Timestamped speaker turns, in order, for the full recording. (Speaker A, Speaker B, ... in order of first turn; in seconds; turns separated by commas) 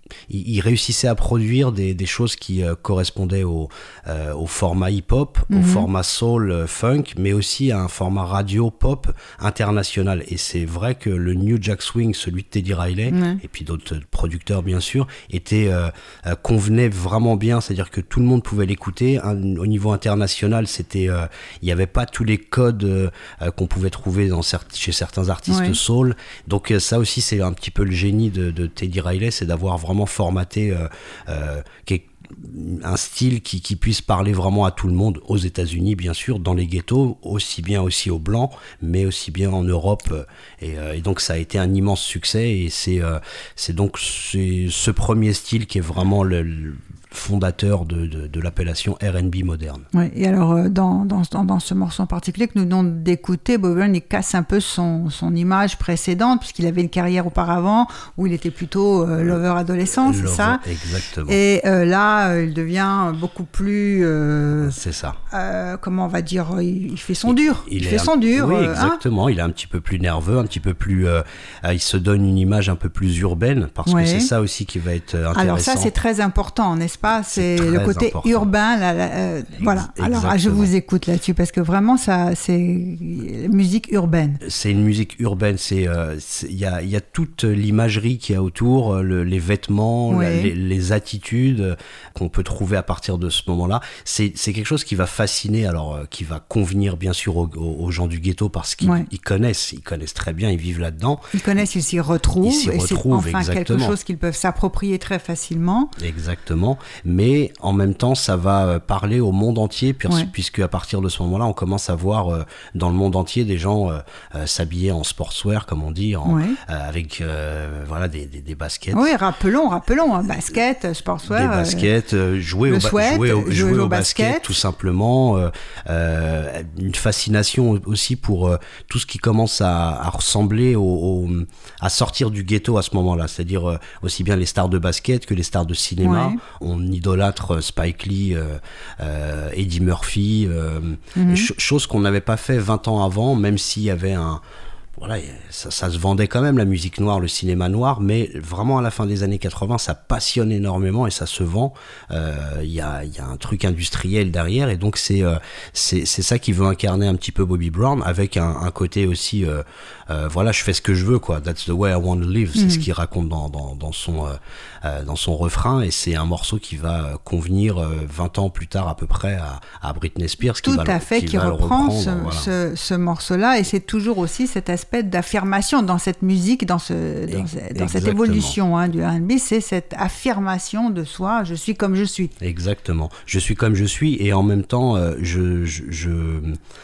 Speaker A: 0.3-49.9, Speaker B: 5.5-5.9, Speaker B: 13.1-13.4, Speaker B: 25.5-25.8, Speaker B: 49.9-60.6, Speaker A: 59.2-61.4, Speaker B: 61.3-64.8, Speaker A: 64.6-65.2, Speaker B: 65.3-69.0, Speaker A: 67.2-75.9, Speaker B: 73.9-74.3, Speaker B: 75.3-84.4, Speaker A: 77.3-78.5, Speaker A: 79.6-80.7, Speaker A: 84.4-101.2, Speaker B: 90.1-90.5, Speaker B: 98.8-99.1, Speaker B: 101.3-105.9, Speaker A: 102.4-104.0, Speaker A: 106.0-119.1, Speaker B: 116.2-116.6, Speaker B: 118.9-121.9, Speaker A: 121.3-144.4, Speaker B: 122.7-124.5, Speaker B: 136.0-136.4, Speaker B: 141.2-141.5, Speaker A: 145.0-172.5, Speaker B: 162.6-162.8, Speaker B: 170.6-182.3, Speaker A: 177.3-178.6, Speaker A: 182.4-186.6